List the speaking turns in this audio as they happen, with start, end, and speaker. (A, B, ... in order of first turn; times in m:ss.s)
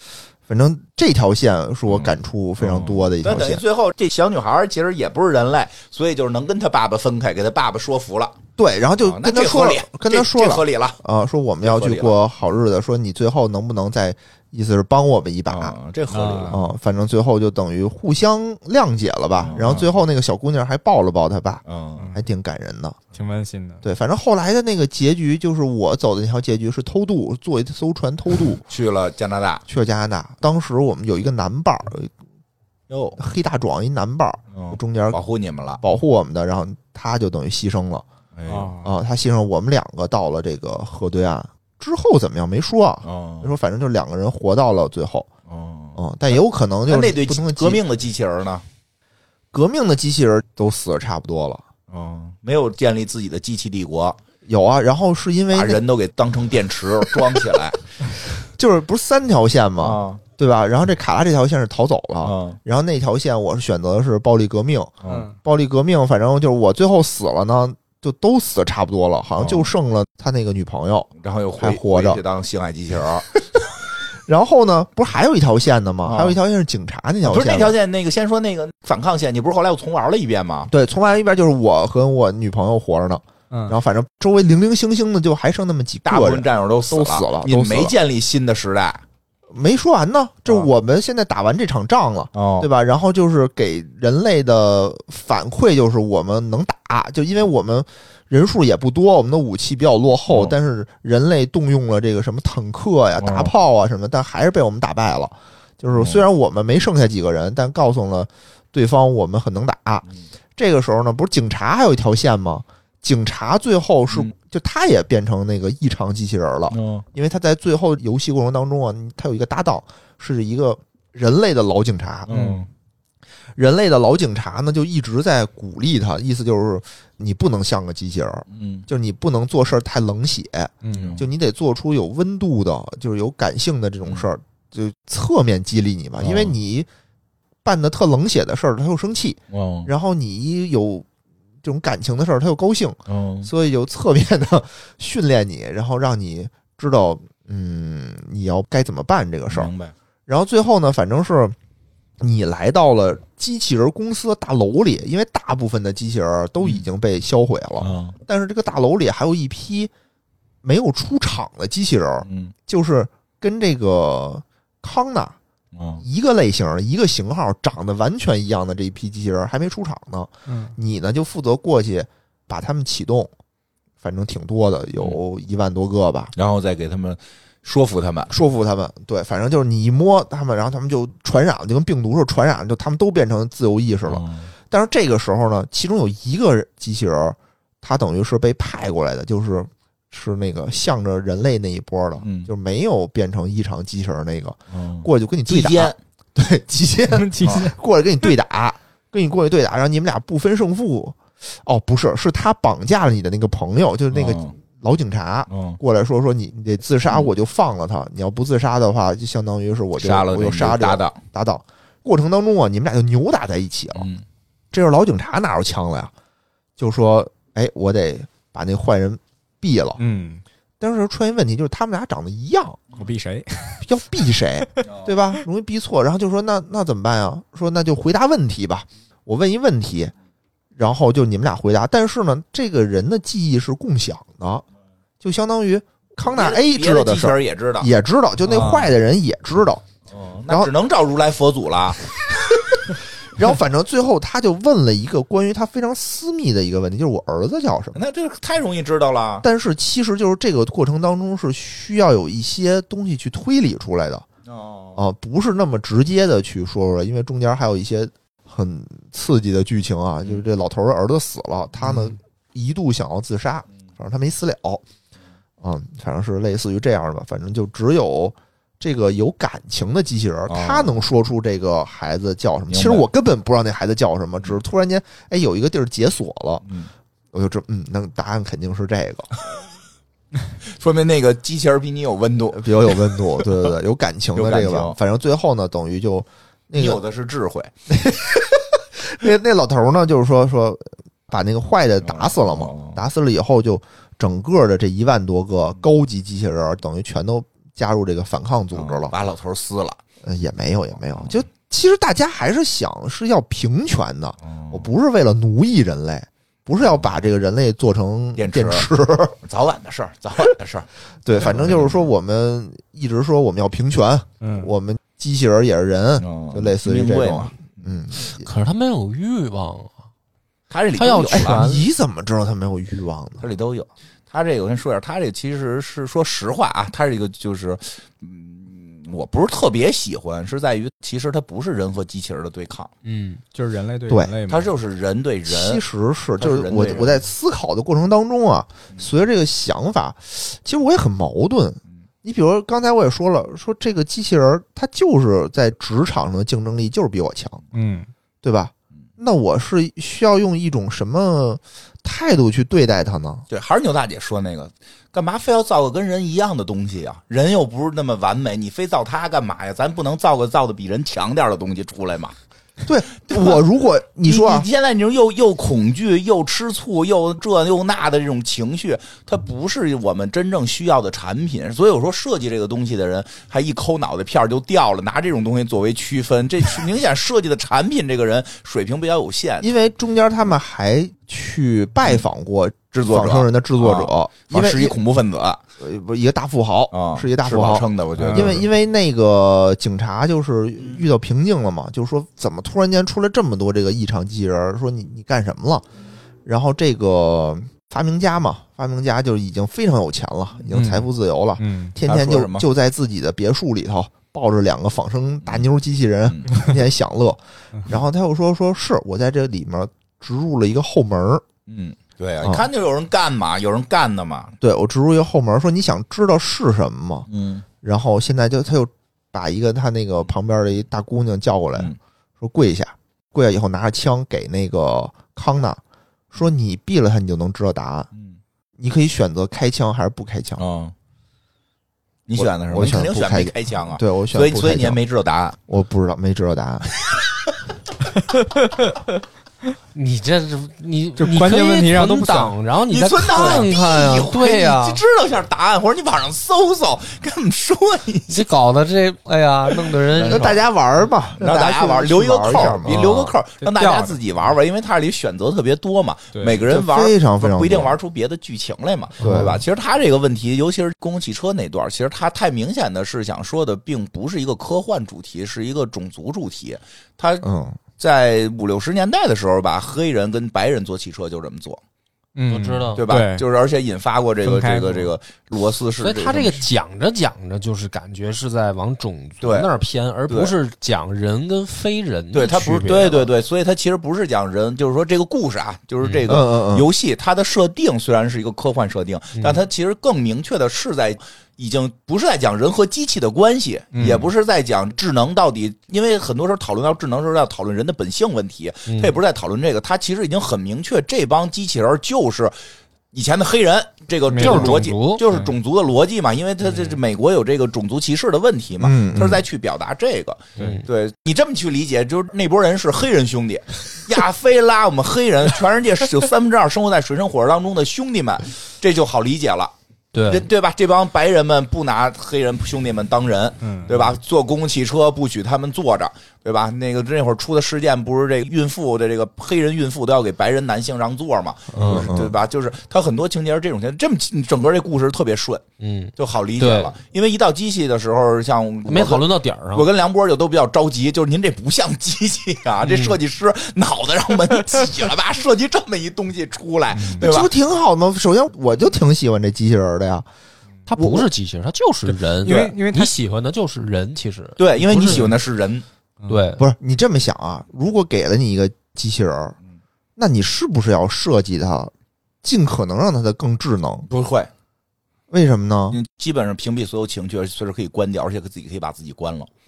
0:00.5-0:03.6 A
0:01.9-0:08.4 B
0:08.6-0:15.7 A
0:09.0-0:11.0 B
0:11.6-0:12.1 B
0:15.5-0:16.6 B
0:16.1-0:16.6 C
0:16.5-0:23.0 A
0:19.4-0:19.9 B
0:21.6-0:22.1 B
0:23.1-0:23.8 C
0:23.8-0:28.6 A
0:28.7-0:29.6 B
0:29.7-0:32.1 A
0:32.9-0:33.2 B
0:33.2-0:35.2 A
0:34.5-0:35.8 B
0:35.8-0:38.0 A
0:38.4-0:38.8 B
0:38.5-0:38.9 C
0:38.8-0:45.3 A
0:43.0-0:43.5 B
0:45.5-0:46.0 B
0:46.0-0:47.8 A
0:46.9-0:48.6 B
0:49.5-0:51.6 A
0:51.9-0:54.2 B
0:54.4-0:55.8 A
0:55.5-0:57.8 B
0:58.6-1:12.2 A
0:59.8-1:00.2 B
1:02.2-1:02.6 B
1:05.0-1:05.3 B
1:05.1-1:05.3 C
1:09.4-1:09.7 B
1:11.2-1:13.3 B
1:14.3-1:17.8 A
1:16.0-1:16.4 B
1:17.2-1:20.7 B
1:20.7-1:27.9 A
1:23.5-1:23.8 C
1:26.0-1:29.0 B
1:29.5-1:50.0 A
1:32.3-1:32.7 B
1:40.3-1:40.5 B
1:43.2-1:43.5 B
1:45.9-1:46.2 B
1:50.6-2:02.3 A
1:56.7-1:57.0 B
2:02.3-2:02.7 B
2:02.3-2:02.6 C
2:03.6-2:16.9 A
2:08.5-2:08.8 B
2:10.8-2:11.2 C
2:10.9-2:11.2 B
2:16.2-2:16.5 B
2:17.6-2:21.1 A
2:19.5-2:19.9 B
2:21.6-2:29.7 A
2:23.1-2:23.5 B
2:29.5-2:29.9 B
2:30.3-2:31.6 A
2:32.2-2:39.9 A
2:37.8-2:38.1 B
2:40.6-2:45.4 A
2:42.2-2:42.5 B
2:45.7-2:46.0 B
2:46.0-2:53.3 A
2:50.5-2:50.7 C
2:54.0-2:56.3 A
2:56.4-2:58.3 B
2:58.3-3:34.1 A
3:04.0-3:04.5 B
3:12.2-3:12.5 B
3:14.7-3:16.0 B
3:17.1-3:17.7 C
3:24.1-3:24.5 B
3:25.5-3:25.8 B
3:30.0-3:31.2 B
3:34.0-3:34.2 B
3:34.7-3:36.1 A
3:36.8-3:40.0 A
3:40.0-3:40.4 C
3:40.8-3:42.8 A
3:43.0-3:43.8 C
3:43.8-3:50.1 A
3:50.8-3:54.6 A
3:55.2-3:59.8 A
3:56.3-3:57.9 B
3:58.5-3:58.8 C
4:00.1-4:02.0 B
4:03.4-4:08.0 A
4:07.9-4:09.4 B
4:09.4-4:14.2 A
4:14.5-4:15.0 B
4:15.0-4:24.8 A
4:25.6-4:36.6 A
4:30.5-4:30.9 B
4:32.7-4:33.0 B
4:37.3-4:39.4 A
4:40.6-4:43.0 B
4:42.5-4:47.0 A
4:44.3-4:45.0 B
4:46.7-4:47.7 B
4:47.9-4:59.1 A
4:52.0-4:53.0 B
4:58.7-5:00.0 B
5:00.2-5:09.4 A
5:04.4-5:04.8 B
5:08.4-5:08.9 B
5:09.4-5:10.9 B
5:11.2-5:18.4 A
5:11.4-5:12.1 B
5:14.4-5:14.7 C
5:16.2-5:17.8 B
5:18.4-5:19.9 D
5:20.7-5:21.6 B
5:21.0-5:21.9 D
5:21.3-5:23.4 A
5:23.4-5:32.9 B
5:33.0-5:33.4 D
5:33.5-5:34.7 C
5:34.1-5:34.3 A
5:34.5-5:35.8 B
5:35.5-5:47.6 A
5:36.4-5:37.2 B
5:47.7-5:48.1 C
5:48.4-5:53.4 A
5:53.5-6:02.3 B
6:02.8-6:04.7 A
6:03.3-6:03.6 B
6:04.2-6:19.7 B
6:19.6-6:25.0 A
6:22.9-6:25.6 B
6:25.8-6:35.8 A
6:26.9-6:28.6 B
6:28.2-6:28.6 C
6:36.4-6:51.4 A
6:40.7-6:41.0 C
6:41.6-6:41.9 C
6:42.0-6:42.6 B
6:51.7-6:54.5 B
6:54.6-6:57.2 A
6:57.3-6:57.6 B
6:57.8-7:05.8 A
7:06.3-7:08.1 A
7:08.1-7:08.4 B
7:08.8-7:10.6 A
7:10.6-7:10.9 B
7:12.3-7:15.6 B
7:12.4-7:15.0 A
7:15.7-7:16.9 A
7:19.9-7:25.0 D
7:21.2-7:22.6 C
7:22.9-7:28.4 B
7:28.3-7:30.6 D
7:30.1-7:30.6 B
7:30.3-7:33.0 A
7:31.4-7:47.4 B
7:32.8-7:34.2 C
7:36.3-7:36.6 C
7:36.7-7:38.0 A
7:39.2-7:39.6 A
7:47.4-7:47.8 A
7:48.0-7:51.8 B
7:52.4-7:53.4 C
7:52.5-7:53.0 D
7:53.0-7:56.6 B
7:54.4-7:55.1 C
7:56.0-8:03.3 D
7:59.4-7:59.7 B
8:00.3-8:00.5 B
8:02.3-8:22.5 B
8:06.3-8:06.9 A
8:09.3-8:09.6 D
8:13.9-8:14.3 C
8:18.9-8:19.1 D
8:23.1-8:39.7 B
8:24.3-8:24.8 C
8:24.4-8:25.2 D
8:28.8-8:29.4 A
8:30.6-8:30.8 D
8:40.1-8:40.4 D
8:40.3-8:55.6 B
8:43.6-8:44.0 C
8:51.8-8:52.1 D
8:51.8-8:52.3 A
8:55.8-8:56.9 D
8:56.2-9:07.5 B
8:58.9-8:59.9 D
9:02.8-9:03.2 D
9:06.9-9:07.2 C
9:07.2-9:10.3 A
9:10.9-9:15.3 D
9:11.0-9:11.3 A
9:12.1-9:13.1 C
9:12.4-9:12.7 B
9:14.6-9:15.8 B
9:16.3-9:16.6 D
9:16.6-9:19.6 A
9:20.2-9:24.1 A
9:24.1-9:24.5 B
9:25.3-9:26.0 A
9:25.9-9:29.5 B